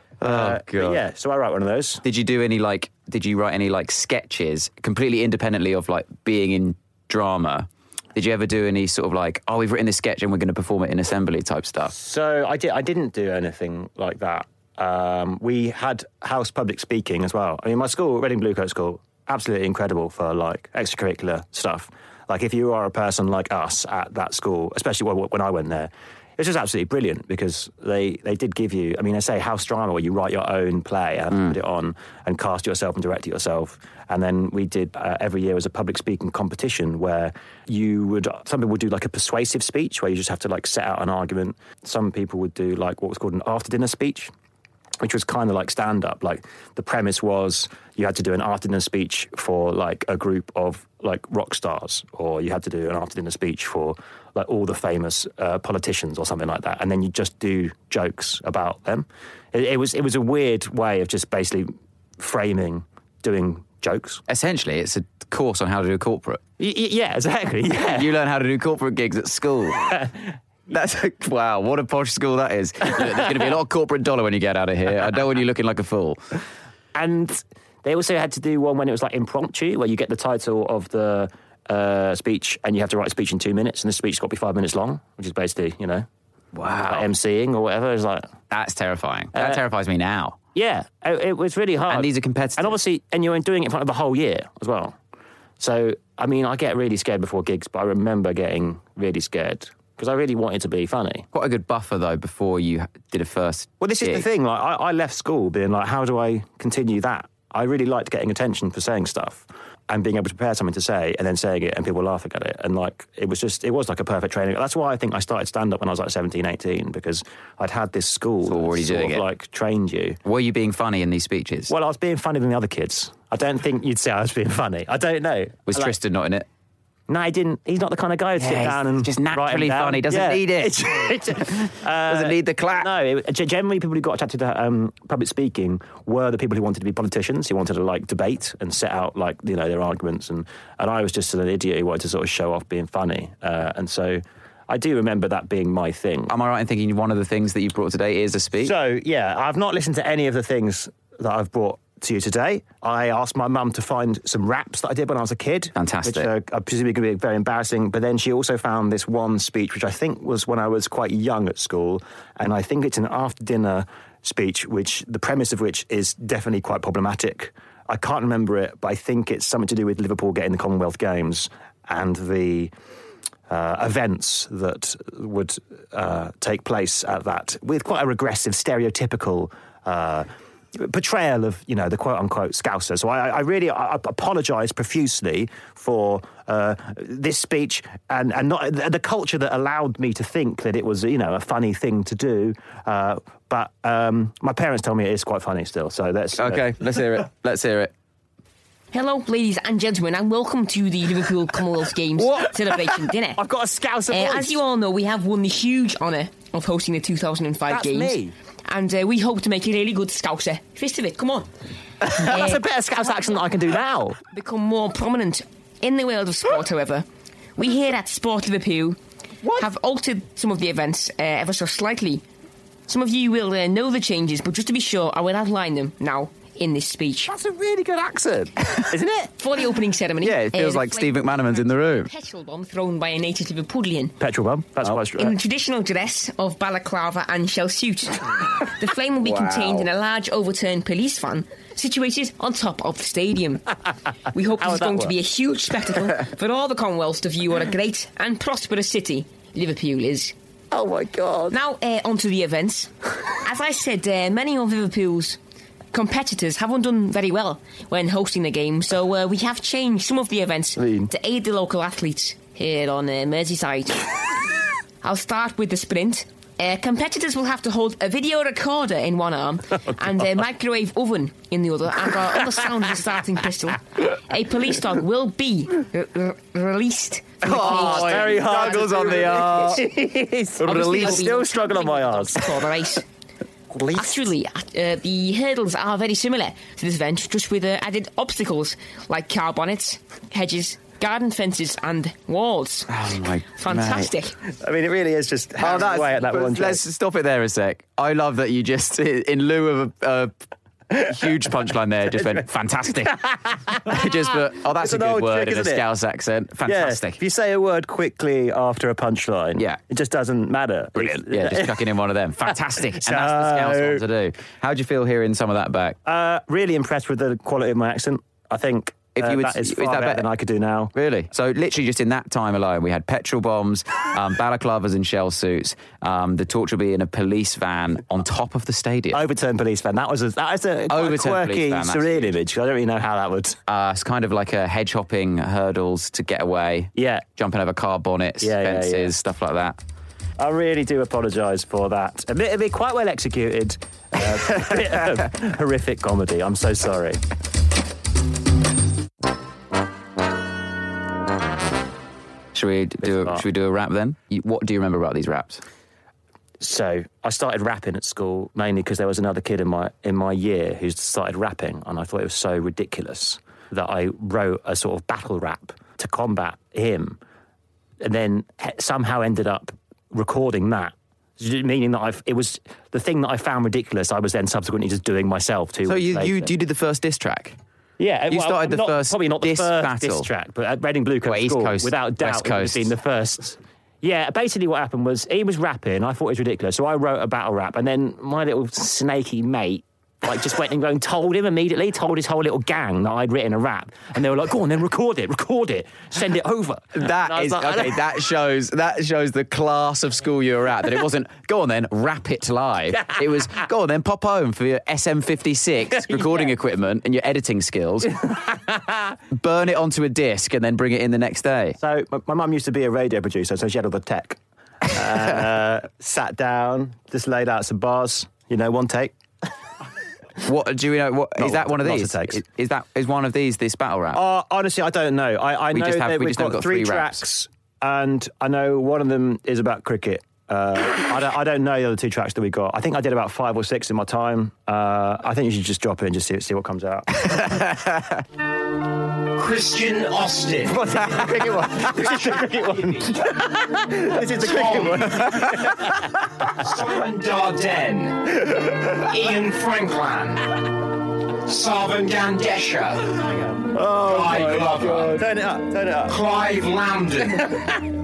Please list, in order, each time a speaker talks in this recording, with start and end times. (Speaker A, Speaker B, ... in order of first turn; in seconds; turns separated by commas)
Speaker A: 0.2-1.0, Speaker B: 0.2-2.0, Speaker A: 2.0-11.9, Speaker B: 11.9-44.3, Speaker B: 45.0-64.2, Speaker A: 64.3-66.4, Speaker B: 66.6-68.1, Speaker A: 67.8-69.9, Speaker B: 69.9-70.2, Speaker A: 70.7-76.2, Speaker B: 76.9-86.1, Speaker A: 86.5-87.1, Speaker B: 86.9-88.3, Speaker A: 88.5-90.4, Speaker B: 89.3-89.6, Speaker B: 90.5-95.0, Speaker A: 91.9-92.8, Speaker B: 95.6-101.2, Speaker A: 101.3-104.2, Speaker B: 103.8-120.2, Speaker A: 118.5-119.2, Speaker A: 120.2-121.7, Speaker B: 121.7-125.9, Speaker A: 125.7-126.5, Speaker B: 127.1-146.3, Speaker A: 128.4-130.8, Speaker A: 132.0-132.9, Speaker A: 146.3-148.7, Speaker B: 148.6-172.7, Speaker A: 155.8-156.3, Speaker B: 173.5-196.7, Speaker A: 196.4-197.9, Speaker C: 198.9-203.4, Speaker B: 203.3-204.6, Speaker C: 204.1-211.5, Speaker B: 207.7-208.3, Speaker B: 212.0-214.2, Speaker C: 212.2-212.6, Speaker C: 214.3-217.1, Speaker C: 217.6-219.0, Speaker C: 219.5-222.2, Speaker C: 222.9-227.3, Speaker B: 227.3-229.3, Speaker C: 229.4-234.1, Speaker A: 230.2-232.1, Speaker B: 234.2-235.4, Speaker C: 235.2-243.8, Speaker A: 239.2-239.9, Speaker C: 244.3-250.3, Speaker B: 244.6-245.1, Speaker B: 250.7-251.6, Speaker C: 251.5-255.4, Speaker C: 255.9-264.1, Speaker B: 260.8-261.1, Speaker C: 265.0-279.8, Speaker A: 277.4-279.9, Speaker B: 277.4-282.6, Speaker C: 280.5-283.0, Speaker A: 280.6-281.2, Speaker B: 283.7-284.3, Speaker C: 283.9-292.9, Speaker A: 292.9-294.1, Speaker C: 293.5-294.3, Speaker B: 294.5-296.8, Speaker A: 295.6-300.4, Speaker B: 300.9-301.4, Speaker A: 301.0-303.1, Speaker B: 302.1-302.4, Speaker B: 303.0-305.8, Speaker A: 303.8-307.2, Speaker B: 306.6-311.8, Speaker A: 310.9-316.0, Speaker B: 312.5-314.0, Speaker B: 316.0-320.9, Speaker A: 319.1-320.2, Speaker A: 320.9-329.2, Speaker B: 329.1-333.6, Speaker A: 330.9-332.3, Speaker A: 333.7-339.8, Speaker B: 336.9-337.2, Speaker B: 338.4-339.1, Speaker B: 340.4-347.2, Speaker A: 352.5-355.6, Speaker B: 353.0-353.4, Speaker B: 356.6-367.2, Speaker B: 368.0-376.5, Speaker A: 375.9-377.6, Speaker B: 378.0-398.0, Speaker A: 378.3-380.3, Speaker A: 381.2-382.9, Speaker A: 396.9-408.2, Speaker B: 406.1-406.4, Speaker B: 408.3-408.9, Speaker A: 409.3-411.8, Speaker B: 411.8-419.1, Speaker A: 420.4-424.2, Speaker B: 421.4-422.4, Speaker B: 424.1-437.4, Speaker A: 425.7-427.2, Speaker A: 437.3-438.2, Speaker D: 439.4-441.2, Speaker B: 440.6-445.9, Speaker D: 444.0-445.6, Speaker D: 446.5-450.6, Speaker D: 451.4-453.3, Speaker B: 453.7-456.2, Speaker D: 454.0-455.2, Speaker A: 454.8-455.1, Speaker D: 456.0-457.5, Speaker B: 457.3-457.7